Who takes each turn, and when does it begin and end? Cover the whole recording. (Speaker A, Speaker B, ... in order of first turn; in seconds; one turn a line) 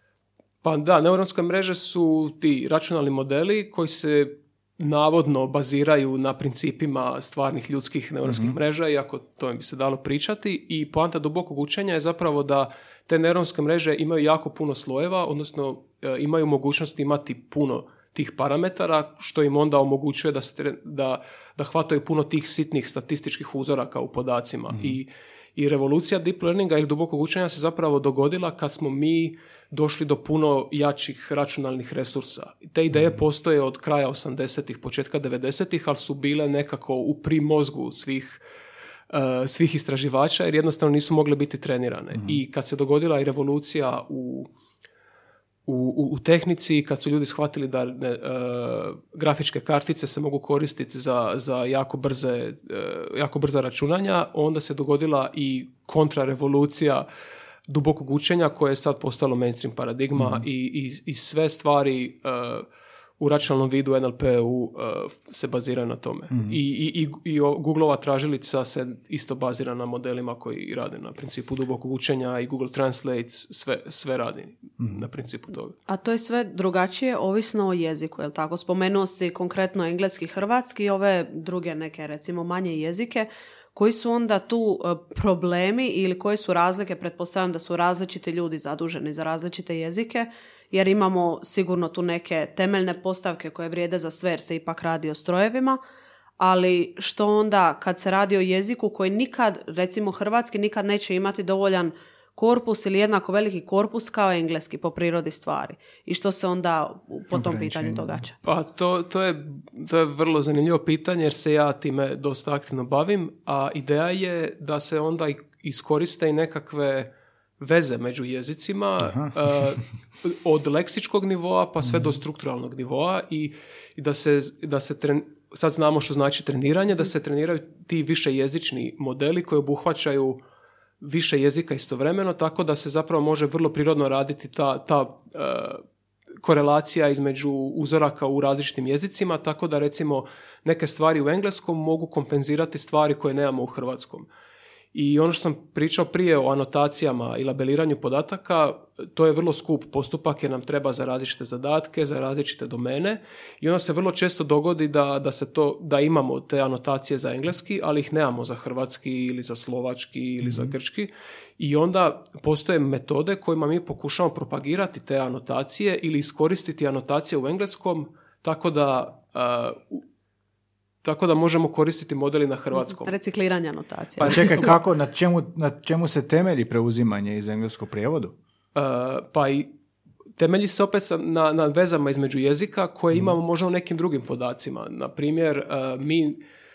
Speaker A: 0.6-38.4
Speaker B: 8.2-8.6
Speaker B: 24.7-25.0
Speaker B: 32.9-33.2
Speaker A: 39.1-44.5
Speaker A: 45.7-57.1
Speaker A: 57.7-62.7
Speaker B: 60.2-60.5
Speaker A: 63.2-75.7
Speaker B: 66.3-66.6
Speaker B: 74.8-75.0
Speaker C: 75.9-95.8
Speaker C: 96.4-108.4
Speaker B: 107.3-108.2
Speaker A: 108.4-130.4
Speaker B: 119.0-119.3
Speaker B: 121.8-122.2
Speaker A: 131.0-135.8
Speaker A: 136.4-144.3
Speaker A: 144.9-170.1
Speaker B: 160.4-160.7
Speaker A: 171.0-173.1
Speaker C: 172.9-174.6
Speaker B: 174.2-178.4
Speaker A: 174.2-174.5
Speaker A: 178.7-179.7
Speaker A: 180.4-186.4